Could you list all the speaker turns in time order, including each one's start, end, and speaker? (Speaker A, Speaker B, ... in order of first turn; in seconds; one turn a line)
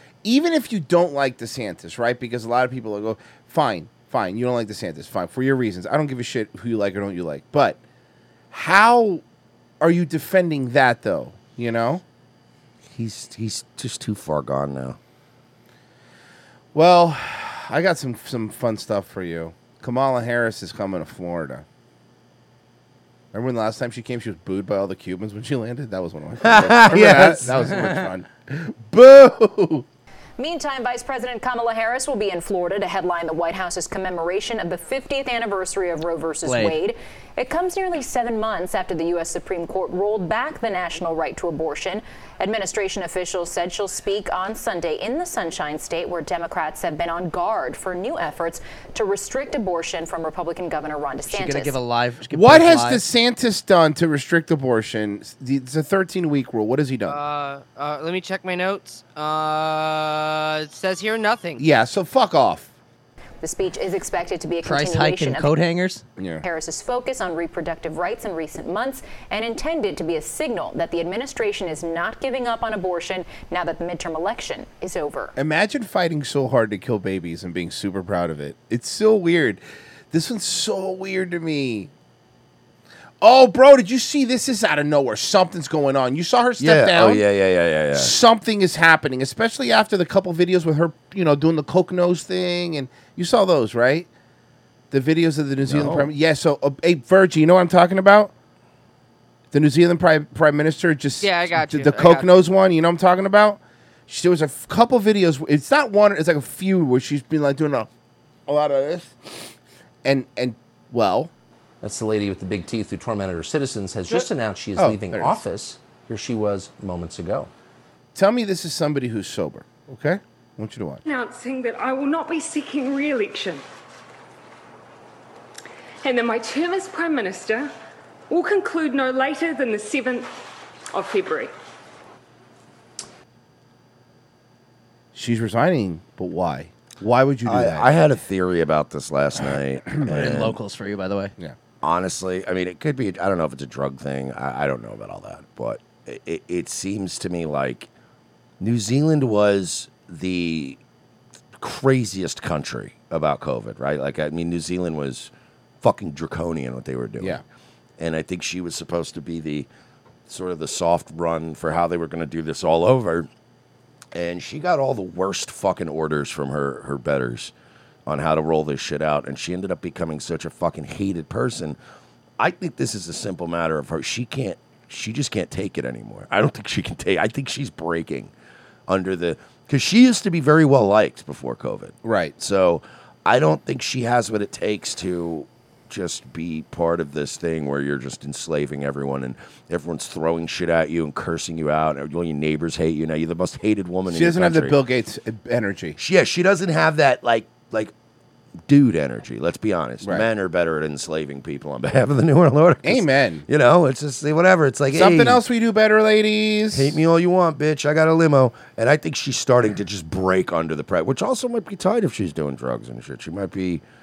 Speaker A: 0.2-7.8
Speaker A: 8.5-9.2
Speaker A: 9.8-12.0
Speaker B: 12.9-15.0
Speaker A: 16.7-21.6
Speaker A: 23.3-29.9
Speaker B: 26.4-27.6
Speaker C: 30.4-51.8
Speaker D: 36.4-36.8
Speaker D: 51.3-53.0
Speaker A: 52.3-57.2
Speaker E: 57.1-61.6
Speaker A: 61.6-62.7
Speaker C: 63.4-65.5
Speaker D: 64.6-66.0
Speaker A: 66.2-66.5
Speaker C: 66.5-75.3
Speaker A: 75.4-81.9
Speaker A: 83.2-87.2
Speaker B: 86.6-88.2
Speaker A: 88.0-94.1
Speaker A: 94.9-98.3
Speaker B: 95.6-96.1
Speaker A: 99.5-107.9
Speaker E: 101.2-102.4
Speaker A: 108.5-109.2
Speaker A: 110.0-111.3
Speaker F: 111.8-117.5
Speaker A: 114.1-115.4
Speaker A: 118.2-121.0
Speaker G: 121.0-123.6
Speaker G: 126.0-127.7
Speaker G: 128.3-130.3
Speaker G: 130.9-131.5
Speaker A: 135.1-137.9
Speaker B: 137.4-140.6
Speaker D: 140.1-141.3
Speaker B: 141.8-147.9
Speaker B: 148.6-150.8
Speaker B: 151.6-157.4
Speaker B: 158.0-159.7
Speaker B: 160.3-163.3
Speaker B: 164.1-167.5
Speaker B: 168.1-171.8
Speaker B: 172.4-178.3
Speaker B: 178.9-194.8
Speaker A: 182.0-182.3
Speaker A: 194.1-196.0
Speaker B: 196.0-197.9
Speaker B: 198.7-205.4
Speaker A: 202.8-203.5
Speaker A: 204.9-207.0
Speaker B: 206.7-213.8